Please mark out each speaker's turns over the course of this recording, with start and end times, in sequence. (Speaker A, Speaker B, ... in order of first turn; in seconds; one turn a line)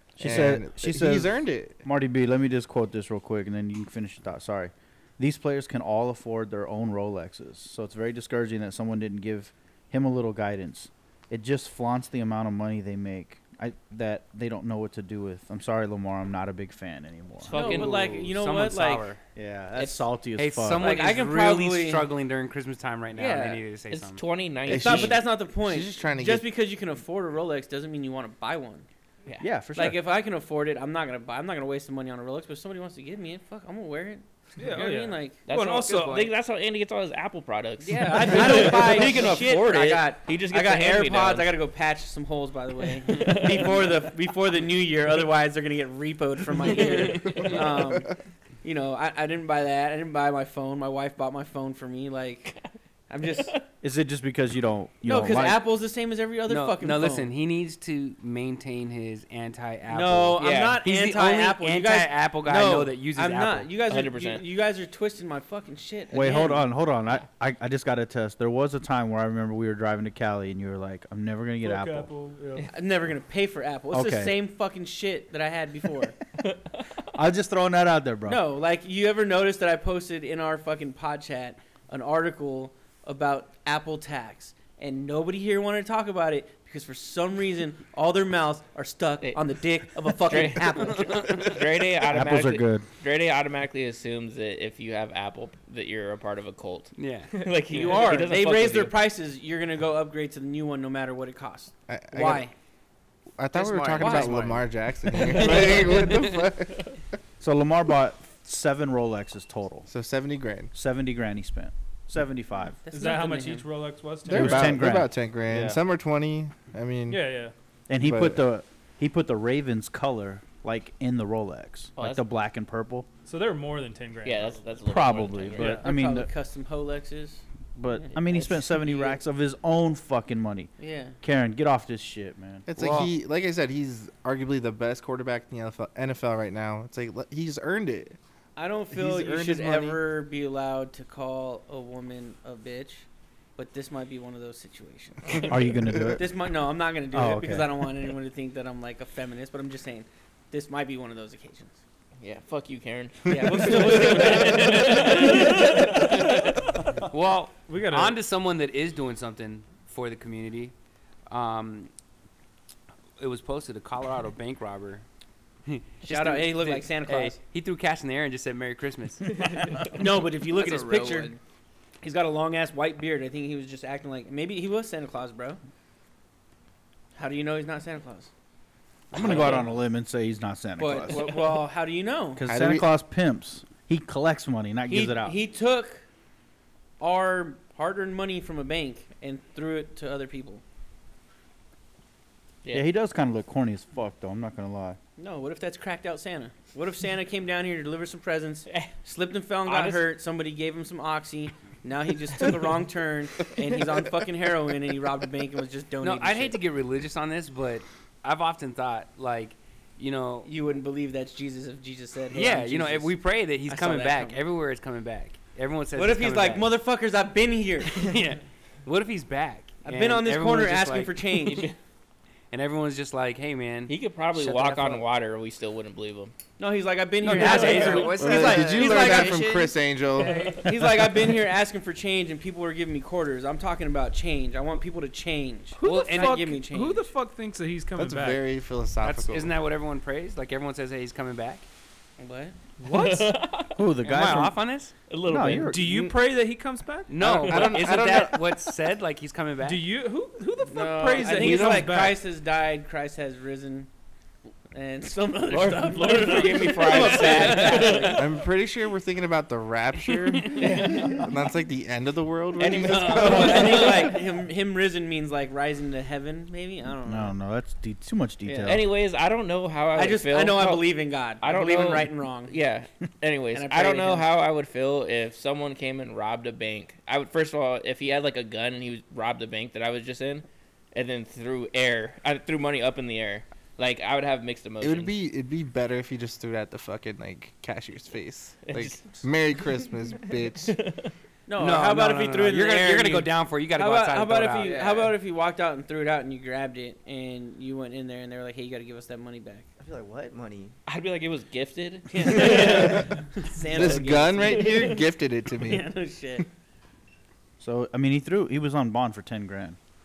Speaker A: 0.2-1.8
Speaker B: 0.2-17.6
Speaker C: 17.4-18.3
Speaker D: 17.5-19.1
Speaker E: 17.6-19.2
Speaker B: 19.3-20.9
Speaker E: 20.4-24.2
Speaker D: 20.8-22.1
Speaker D: 23.1-23.6
Speaker C: 23.9-25.2
Speaker D: 24.7-28.9
Speaker A: 24.7-26.5
Speaker B: 29.4-30.0
Speaker D: 29.7-35.5
Speaker F: 34.6-36.3
Speaker C: 35.5-41.6
Speaker D: 37.8-52.6
Speaker C: 43.0-44.2
Speaker C: 46.6-47.6
Speaker D: 53.1-53.6
Speaker C: 53.2-53.6
Speaker B: 53.8-55.6
Speaker D: 55.0-57.3
Speaker E: 56.5-63.7
Speaker D: 59.9-66.7
Speaker C: 60.4-60.8
Speaker C: 63.9-64.4
Speaker B: 66.1-72.1
Speaker F: 71.6-72.7
Speaker D: 72.7-76.1
Speaker B: 73.9-74.3
Speaker C: 76.4-76.8
Speaker B: 77.1-78.4
Speaker D: 78.2-91.3
Speaker C: 89.2-89.5
Speaker C: 90.0-99.0
Speaker E: 90.9-91.5
Speaker B: 92.1-92.8
Speaker E: 97.0-97.3
Speaker D: 97.7-102.5
Speaker A: 101.9-102.5
Speaker A: 103.4-106.9
Speaker D: 103.6-104.6
Speaker G: 104.0-104.4
Speaker C: 105.2-106.1
Speaker C: 106.7-106.9
Speaker B: 107.4-109.9
Speaker A: 109.9-110.7
Speaker B: 110.7-112.8
Speaker D: 112.8-113.8
Speaker F: 112.9-115.0
Speaker A: 114.3-117.3
Speaker B: 114.3-115.8
Speaker F: 117.1-117.5
Speaker B: 117.9-123.1
Speaker A: 118.0-118.4
Speaker C: 122.0-122.2
Speaker F: 123.2-124.6
Speaker C: 124.2-125.8
Speaker B: 124.8-126.3
Speaker F: 125.6-125.8
Speaker D: 125.6-129.2
Speaker B: 127.7-132.7
Speaker D: 130.8-131.2
Speaker A: 132.7-138.2
Speaker E: 132.7-133.1
Speaker D: 138.6-145.6
Speaker A: 138.9-140.0
Speaker B: 145.5-146.2
Speaker D: 146.2-151.8
Speaker B: 147.1-147.8
Speaker C: 152.2-156.1
Speaker D: 153.3-156.1
Speaker E: 157.1-160.7
Speaker F: 157.7-158.2
Speaker E: 161.3-161.9
Speaker E: 163.2-165.1
Speaker E: 165.7-169.3
Speaker D: 166.0-167.4
Speaker G: 169.2-171.3
Speaker D: 169.7-171.4
Speaker D: 172.0-175.6
Speaker D: 177.1-178.3
Speaker E: 179.1-179.6
Speaker B: 179.1-181.3
Speaker D: 179.2-179.7
Speaker D: 180.8-182.4
Speaker B: 182.3-185.4
Speaker A: 182.5-182.8
Speaker D: 184.9-186.1
Speaker D: 187.0-190.6
Speaker B: 192.7-195.0
Speaker D: 195.2-206.6
Speaker C: 199.6-200.1
Speaker E: 206.0-210.5
Speaker D: 210.4-214.4
Speaker E: 212.3-216.7
Speaker D: 215.9-218.1
Speaker E: 217.9-221.7
Speaker D: 219.8-221.7
Speaker E: 222.5-225.1
Speaker C: 223.9-226.3
Speaker D: 226.6-229.4
Speaker E: 227.2-228.5
Speaker G: 227.3-229.7
Speaker A: 228.1-230.6
Speaker D: 230.2-237.1
Speaker F: 235.7-238.4
Speaker E: 235.8-236.4
Speaker A: 237.9-239.5
Speaker E: 239.0-241.7
Speaker D: 242.2-242.6
Speaker F: 242.8-243.3
Speaker C: 242.8-243.8
Speaker B: 243.7-244.6
Speaker E: 244.0-244.9
Speaker C: 245.1-245.7
Speaker B: 245.3-246.1
Speaker F: 245.6-247.2
Speaker E: 247.1-249.8
Speaker A: 247.2-248.5
Speaker F: 249.6-252.2
Speaker D: 250.6-253.9
Speaker A: 251.3-252.0
Speaker D: 254.7-258.3
Speaker C: 255.5-258.2
Speaker F: 257.0-258.0
Speaker A: 258.1-264.1
Speaker C: 260.5-261.3
Speaker C: 262.6-264.2
Speaker D: 262.7-267.3
Speaker E: 262.9-263.8
Speaker B: 267.0-268.8
Speaker C: 268.6-285.1
Speaker D: 269.9-272.6
Speaker D: 273.5-274.3
Speaker A: 284.8-290.8
Speaker C: 288.6-289.2
Speaker C: 290.7-291.1
Speaker D: 291.5-299.7
Speaker E: 291.6-294.8
Speaker G: 294.6-295.1
Speaker G: 299.8-300.7
Speaker C: 300.9-303.1
Speaker D: 302.1-305.0
Speaker A: 302.5-303.0
Speaker A: 303.7-305.9
Speaker C: 303.8-304.9
Speaker D: 305.6-306.4
Speaker B: 307.6-309.8